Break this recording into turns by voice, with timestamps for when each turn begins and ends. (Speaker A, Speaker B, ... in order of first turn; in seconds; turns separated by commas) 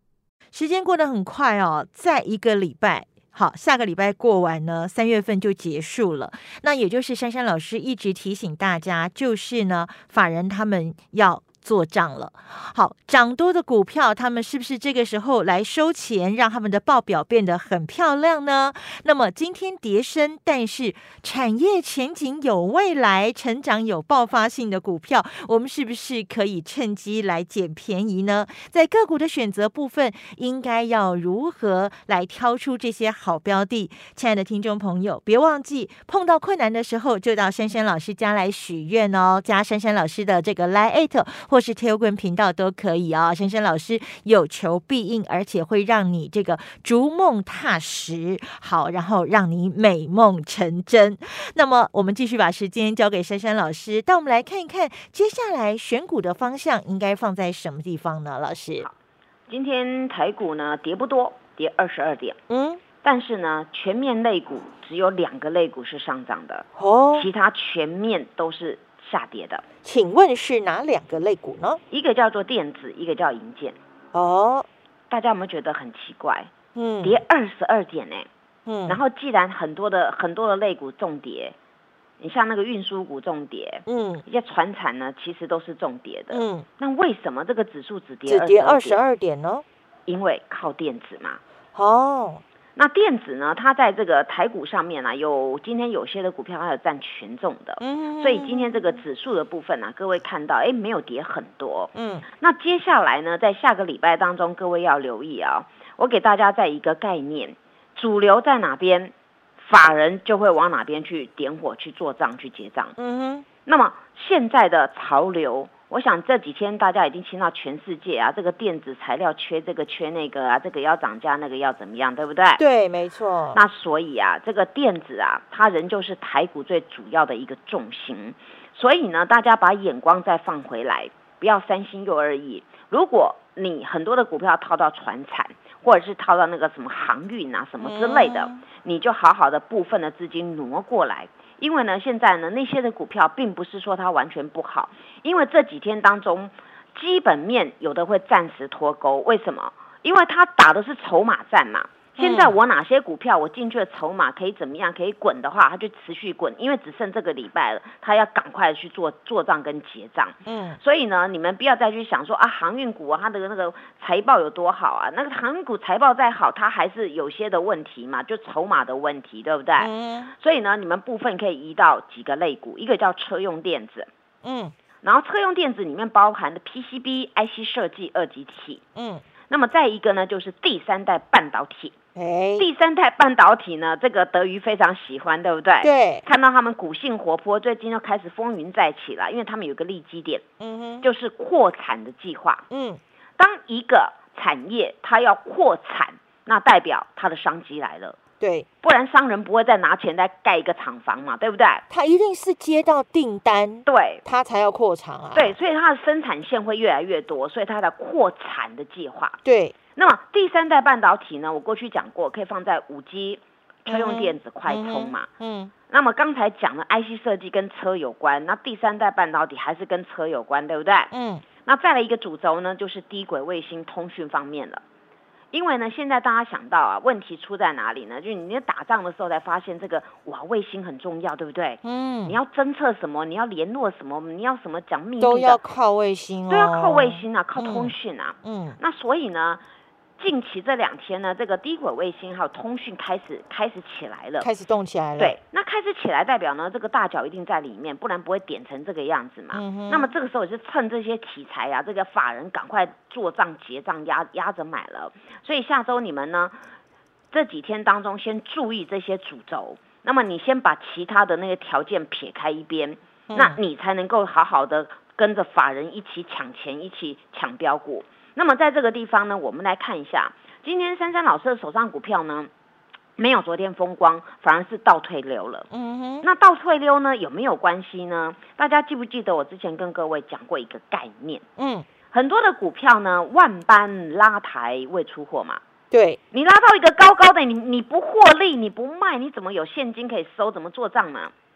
Speaker A: 0.5-58.9, Speaker B: 59.5-62.4, Speaker A: 62.5-62.8, Speaker B: 63.0-69.6, Speaker A: 66.8-67.3, Speaker A: 69.8-71.8, Speaker B: 71.9-73.8, Speaker A: 74.1-74.7, Speaker B: 75.1-76.5, Speaker A: 76.8-77.2, Speaker B: 77.0-78.3, Speaker A: 78.7-79.0, Speaker B: 78.9-81.5, Speaker B: 82.2-89.0, Speaker A: 83.9-84.2, Speaker A: 86.3-86.7, Speaker A: 88.3-89.6, Speaker B: 90.1-91.4, Speaker A: 91.8-92.4, Speaker B: 92.8-113.0, Speaker A: 97.8-99.0, Speaker A: 102.0-102.3, Speaker A: 113.0-113.5, Speaker B: 113.7-122.6, Speaker A: 122.6-123.6, Speaker B: 123.5-174.1, Speaker A: 137.8-138.6, Speaker A: 152.2-152.5, Speaker A: 160.4-160.8, Speaker A: 169.8-170.3, Speaker A: 174.4-174.7, Speaker B: 175.0-178.8, Speaker A: 179.0-179.2, Speaker B: 179.5-182.0, Speaker A: 182.2-182.7, Speaker B: 182.6-190.4, Speaker A: 185.8-186.2, Speaker A: 190.6-191.1, Speaker B: 191.0-192.6, Speaker A: 192.7-193.0, Speaker B: 193.4-198.2, Speaker A: 198.4-198.7, Speaker B: 198.8-201.8, Speaker A: 201.9-205.5, Speaker B: 203.9-204.2, Speaker B: 205.3-209.4, Speaker A: 209.4-209.8, Speaker B: 210.0-215.3, Speaker A: 213.9-215.7, Speaker B: 215.9-221.1, Speaker A: 221.1-221.4, Speaker B: 221.7-224.8, Speaker B: 225.5-235.6, Speaker A: 231.8-232.4, Speaker A: 235.2-237.9, Speaker B: 236.5-239.6, Speaker A: 238.4-238.8, Speaker B: 240.2-244.5, Speaker A: 244.4-245.4, Speaker B: 245.2-256.6, Speaker A: 249.5-250.1, Speaker B: 257.3-272.5, Speaker A: 263.3-263.6, Speaker B: 273.2-275.7, Speaker A: 275.7-276.3, Speaker B: 276.2-281.5, Speaker A: 281.6-281.9, Speaker B: 282.1-285.6, Speaker A: 285.9-286.2, Speaker B: 286.3-291.3